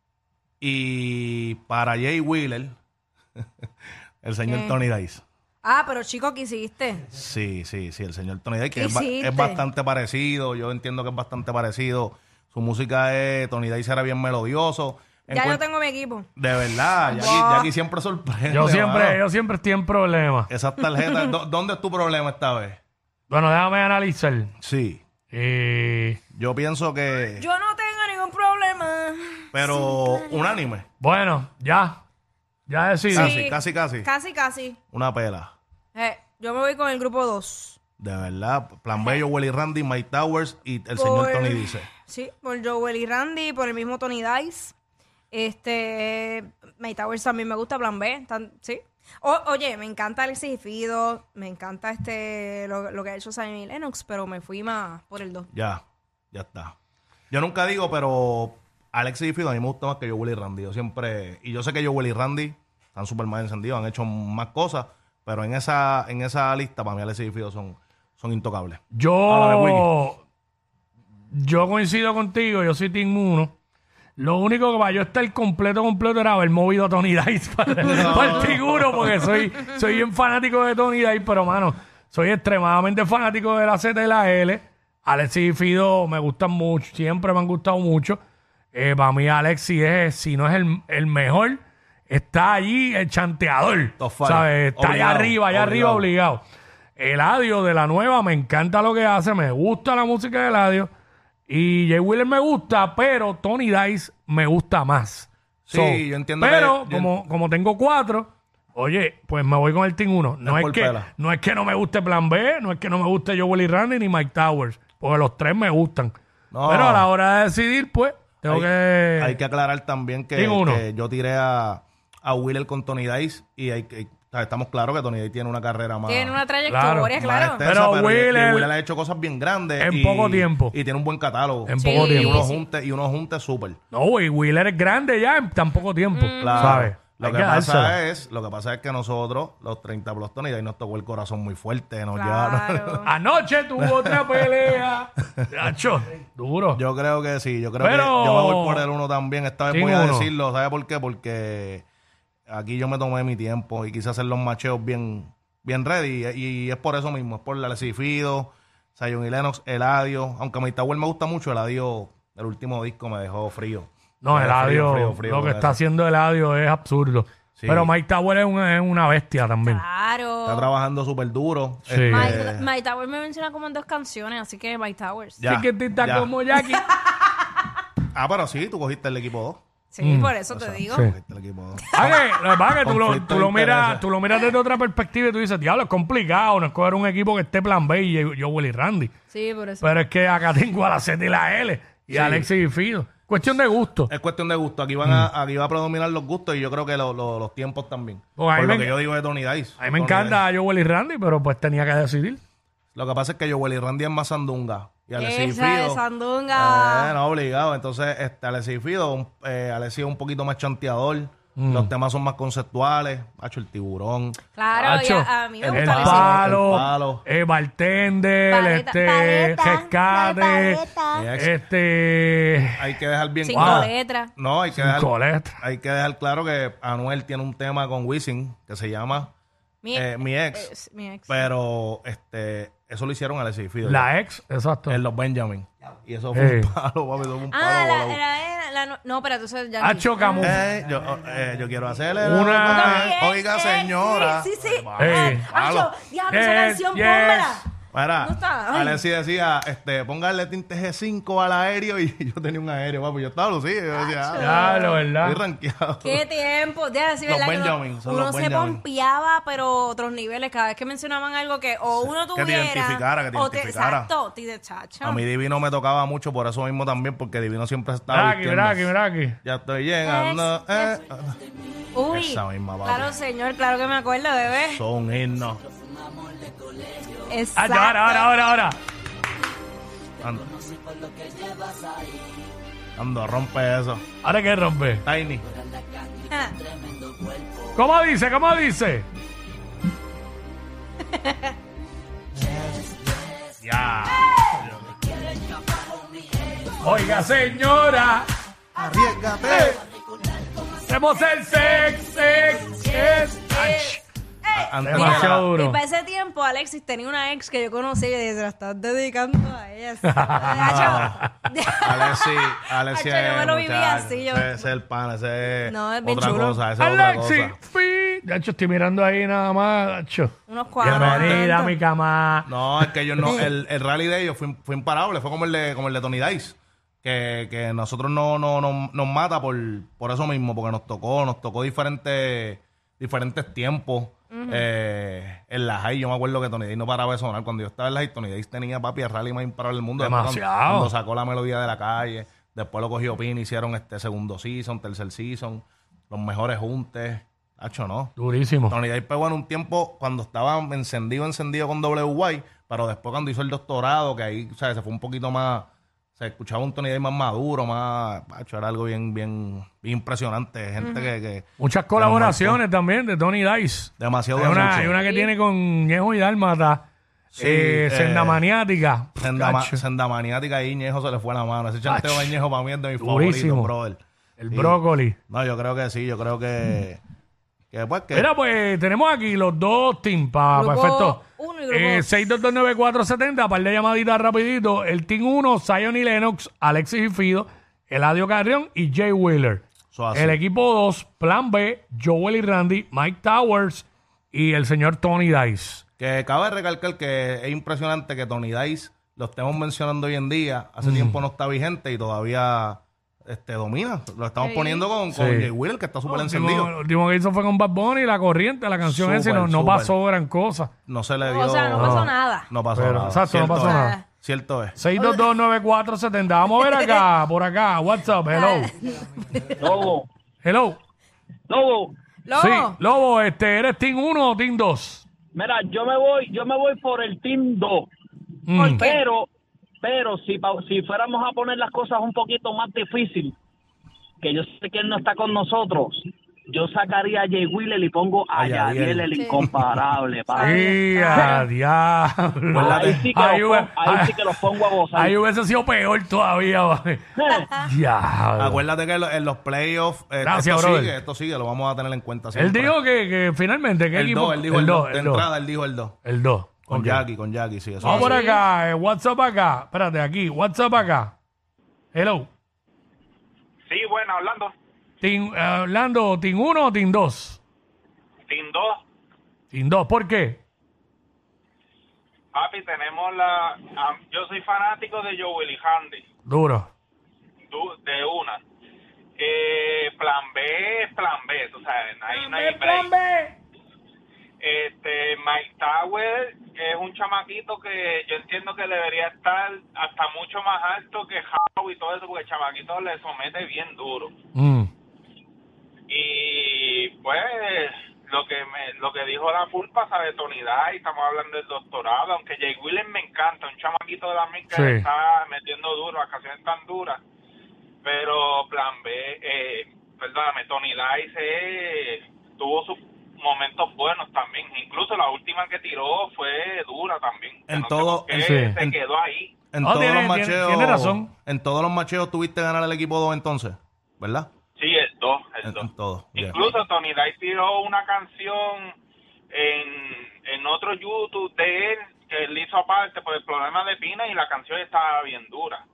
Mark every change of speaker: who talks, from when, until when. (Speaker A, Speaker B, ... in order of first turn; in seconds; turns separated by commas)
Speaker A: 0.6-2.7, Speaker A: 4.2-5.2, Speaker B: 4.5-4.8, Speaker B: 5.6-7.1, Speaker A: 7.1-15.6, Speaker B: 8.7-9.6, Speaker B: 15.3-16.3, Speaker A: 16.4-19.2, Speaker B: 17.1-17.7, Speaker C: 18.5-20.5, Speaker A: 20.5-22.8, Speaker C: 23.3-24.5, Speaker A: 24.6-25.0, Speaker C: 25.3-26.2, Speaker A: 26.3-27.4, Speaker B: 27.4-30.6, Speaker A: 29.5-30.9, Speaker C: 31.0-32.0, Speaker C: 32.7-33.4, Speaker A: 33.1-34.1, Speaker B: 33.1-34.8, Speaker A: 34.9-35.5, Speaker B: 35.9-37.8, Speaker A: 38.0-41.9, Speaker B: 41.0-44.7, Speaker B: 45.3-55.5, Speaker A: 55.5-56.7, Speaker A: 57.3-69.9, Speaker C: 68.9-70.2, Speaker C: 71.3-73.5, Speaker C: 74.2-88.2, Speaker A: 77.8-79.1, Speaker C: 88.7-96.4, Speaker A: 94.0-96.1, Speaker C: 97.0-100.9, Speaker C: 101.5-116.1, Speaker A: 105.7-107.1, Speaker A: 110.4-111.1, Speaker A: 116.5-117.1, Speaker C: 116.7-119.4, Speaker A: 118.4-126.4, Speaker C: 120.3-120.8, Speaker B: 126.1-127.6, Speaker C: 126.7-128.7, Speaker A: 127.2-133.8, Speaker C: 129.8-130.8, Speaker C: 131.7-132.5, Speaker B: 131.8-132.7, Speaker C: 133.9-138.0, Speaker B: 136.1-136.8, Speaker A: 136.4-143.0, Speaker B: 142.1-143.1, Speaker C: 143.0-146.8, Speaker A: 143.8-144.8, Speaker A: 146.7-151.8, Speaker C: 147.8-148.9, Speaker C: 149.7-150.3, Speaker A: 152.5-165.8, Speaker C: 164.2-169.8, Speaker A: 167.6-167.9, Speaker B: 169.6-170.7, Speaker A: 170.4-172.7, Speaker C: 171.9-172.4, Speaker B: 172.1-175.4, Speaker A: 175.4-176.3, Speaker C: 175.5-176.9, Speaker A: 178.1-179.6, Speaker B: 179.9-181.1, Speaker C: 180.0-180.3, Speaker A: 180.5-182.3, Speaker C: 181.9-189.1, Speaker A: 182.8-184.1, Speaker B: 189.3-189.8, Speaker C: 189.8-194.1, Speaker A: 192.1-192.5, Speaker A: 194.1-200.4, Speaker C: 198.4-199.0, Speaker C: 199.8-202.4, Speaker A: 202.9-206.0, Speaker B: 205.2-207.2, Speaker A: 206.5-215.0, Speaker C: 211.6-211.9, Speaker B: 214.6-216.7, Speaker C: 214.8-220.8, Speaker A: 215.6-217.2, Speaker B: 218.5-221.2, Speaker A: 221.1-221.6, Speaker C: 221.3-222.8, Speaker A: 222.8-229.3, Speaker B: 223.5-224.3, Speaker C: 223.5-223.9, Speaker C: 224.7-225.6, Speaker B: 229.8-231.5, Speaker A: 229.9-230.7, Speaker A: 231.3-234.1, Speaker C: 233.8-235.0, Speaker A: 234.9-238.2, Speaker C: 236.3-236.7, Speaker B: 237.5-240.6, Speaker C: 239.8-240.6, Speaker A: 240.4-245.9, Speaker C: 242.2-243.2, Speaker B: 242.7-247.6, Speaker C: 245.0-245.4, Speaker C: 246.3-247.6, Speaker A: 247.9-256.2, Speaker B: 248.2-249.0, Speaker B: 253.9-255.0, Speaker C: 254.4-255.4, Speaker B: 256.0-265.2, Speaker A: 257.2-258.8, Speaker A: 261.9-264.1, Speaker A: 265.0-271.4, Speaker C: 268.1-269.4, Speaker B: 270.0-271.0, Speaker B: 271.9-274.8, Speaker A: 272.1-273.1, Speaker A: 274.6-275.6, Speaker B: 277.2-278.4, Speaker C: 277.5-278.8, Speaker A: 280.2-280.6, Speaker A: 283.0-284.0, Speaker C: 284.2-285.0, Speaker A: 285.0-285.5, Speaker B: 286.3-286.6, Speaker C: 287.7-289.1, Speaker B: 291.2-291.5, Speaker A: 293.6-294.7, Speaker C: 296.8-298.2, Speaker A: 298.8-299.8, Speaker C: 299.5-299.8, Speaker C: 300.9-304.0, Speaker B: 304.5-314.7, Speaker A: 304.5-305.5, Speaker C: 304.8-305.8, Speaker C: 310.1-311.2, Speaker A: 310.5-311.2, Speaker A: 311.8-317.6, Speaker B: 315.6-316.6, Speaker C: 316.8-322.5, Speaker B: 320.5-321.8, Speaker A: 320.8-321.4, Speaker A: 322.4-348.1, Speaker B: 334.3-334.6, Speaker C: 340.0-340.9, Speaker C: 348.2-348.8, Speaker A: 348.7-362.6, Speaker B: 360.8-361.1, Speaker C: 361.6-369.8, Speaker A: 364.0-365.0, Speaker B: 364.9-365.3, Speaker A: 367.4-368.5, Speaker A: 369.2-374.0, Speaker C: 371.9-372.4, Speaker C: 373.0-373.7, Speaker C: 374.4-375.2, Speaker A: 374.5-377.0, Speaker A: 377.7-378.3, Speaker C: 378.1-395.8, Speaker B: 380.5-382.2, Speaker A: 389.9-390.4, Speaker A: 396.0-406.7, Speaker C: 400.8-401.2, Speaker B: 404.4-404.9, Speaker C: 405.1-405.5, Speaker C: 406.1-410.7, Speaker A: 408.8-409.9, Speaker A: 410.9-414.8, Speaker B: 411.2-412.5, Speaker C: 411.7-412.1, Speaker C: 412.7-414.0, Speaker B: 413.5-414.0, Speaker C: 414.8-418.7, Speaker B: 416.6-417.0, Speaker B: 418.3-419.7, Speaker D: 419.6-420.1, Speaker C: 420.4-420.8, Speaker D: 421.5-421.9, Speaker B: 422.2-422.8, Speaker C: 422.4-425.1, Speaker D: 425.3-427.9, Speaker C: 428.5-428.9, Speaker B: 428.5-429.0, Speaker D: 428.7-429.3, Speaker D: 429.8-433.4, Speaker D: 434.2-440.6, Speaker A: 438.3-439.8, Speaker B: 439.1-439.5, Speaker B: 440.3-441.5, Speaker C: 440.4-447.0, Speaker D: 442.5-445.1, Speaker A: 442.6-443.1, Speaker D: 447.1-447.4, Speaker B: 447.3-447.7, Speaker C: 447.6-448.6, Speaker A: 448.4-452.8, Speaker C: 450.2-451.0, Speaker C: 452.3-455.3, Speaker A: 453.9-456.0, Speaker C: 456.0-457.0, Speaker A: 456.7-458.2, Speaker B: 457.8-458.4, Speaker C: 457.8-461.1, Speaker C: 461.9-462.3, Speaker E: 463.7-464.5, Speaker C: 465.0-467.4, Speaker E: 468.3-468.8, Speaker C: 469.5-470.4, Speaker E: 472.3-476.0, Speaker C: 476.2-476.7, Speaker E: 477.5-478.4, Speaker E: 479.2-482.9, Speaker C: 482.1-483.3, Speaker E: 484.4-494.1, Speaker C: 494.3-494.7, Speaker E: 495.9-507.0, Speaker C: 504.5-504.8, Speaker E: 507.8-519.3, Speaker A: 517.5-518.8, Speaker C: 518.2-518.5, Speaker A: 519.5-524.3, Speaker C: 519.6-521.1, Speaker E: 524.6-525.6, Speaker A: 525.4-526.5, Speaker E: 526.2-528.7, Speaker E: 529.3-535.6